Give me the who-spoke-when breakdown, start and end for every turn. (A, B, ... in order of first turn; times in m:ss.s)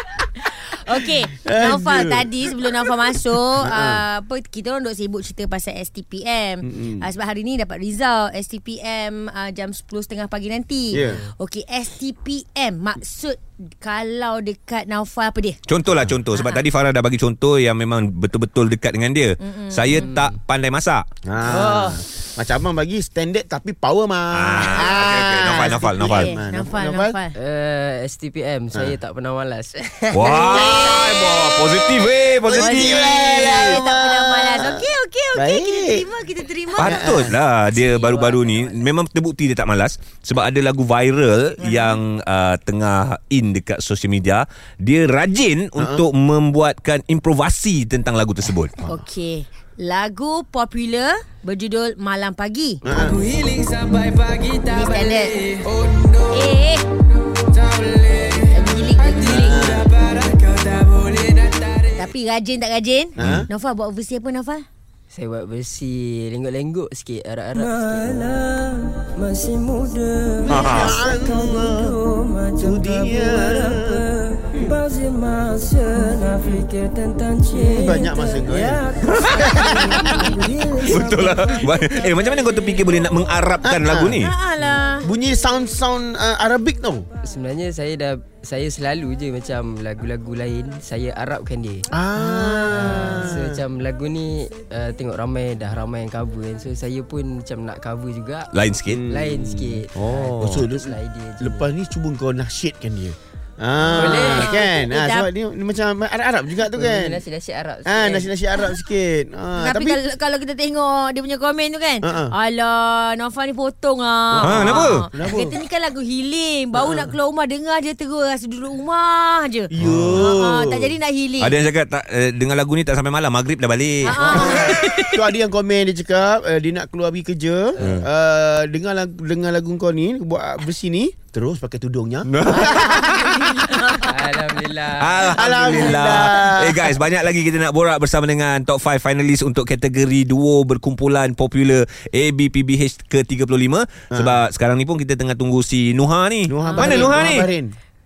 0:00.7-0:15.6 A
0:01.4-0:02.3 B
0:03.6-0:04.0 B
0:06.6-0:07.1 B
0:10.9-0:11.2 B
0:11.0-0:11.3 C
0:15.7-0:21.0 D
0:16.3-0:16.6 A
0:19.4-0:20.0 A
0:19.9-0:20.4 C
0:21.2-0:27.2 B
0:21.4-0:22.0 C
0:24.3-0:26.3 D
0:25.5-0:27.4 A
0:27.4-0:30.8 C
0:30.1-0:33.7 D
0:30.3-0:31.8 A
0:30.5-0:31.2 B
0:32.4-0:34.8 B
0:32.5-0:37.1 A
0:35.4-0:36.0 B
0:36.8-0:48.8 D
0:36.8-0:37.4 B
0:37.7-0:38.9 C
0:41.6-0:42.0 A
0:45.8-0:46.0 B
0:48.8-0:54.0 A
0:52.8-0:53.2 B
0:54.5-0:55.7 A
0:56.2-0:56.8 A
0:57.5-0:59.8 A
0:59.4-0:59.9 B
1:00.6-1:01.4 C
1:01.9-1:04.7 A
1:03.2-1:03.5 B
1:05.1-1:22.7 C
1:10.5-1:10.9 D
1:10.5-1:12.0 B
1:12.6-1:14.8 B
1:17.6-1:20.5 B
1:19.1-1:19.5 D
1:20.9-1:24.3 D
1:23.6-1:24.2 B
1:24.2-1:25.1 A
1:25.0-1:27.1 B
1:27.2-1:31.9 C
1:31.9-1:33.5 B
1:32.2-1:33.4 A
1:32.7-1:38.5 C
1:38.5-1:39.1 D
1:38.9-1:47.2 B
1:39.1-1:41.7 C
1:39.9-1:40.6 D
1:43.8-1:45.3 A
1:44.0-1:44.6 C
1:46.7-1:48.3 C
1:47.8-1:50.0 B
1:49.6-2:01.6 A
1:52.0-1:52.3 B
1:54.4-1:55.5 B
1:54.4-1:55.1 D
1:56.8-1:57.1 B
1:59.7-2:00.9 B
1:59.8-2:00.3 D
2:01.4-2:04.8 D
2:04.0-2:05.2 A
2:04.3-2:13.0 B
2:07.8-2:08.0 C
2:12.3-2:13.6 D
2:14.1-2:15.9 C
2:15.0-2:27.5 D
2:15.2-2:17.0 B
2:24.1-2:24.4 B
2:26.5-2:27.8 B
2:26.6-2:27.3 C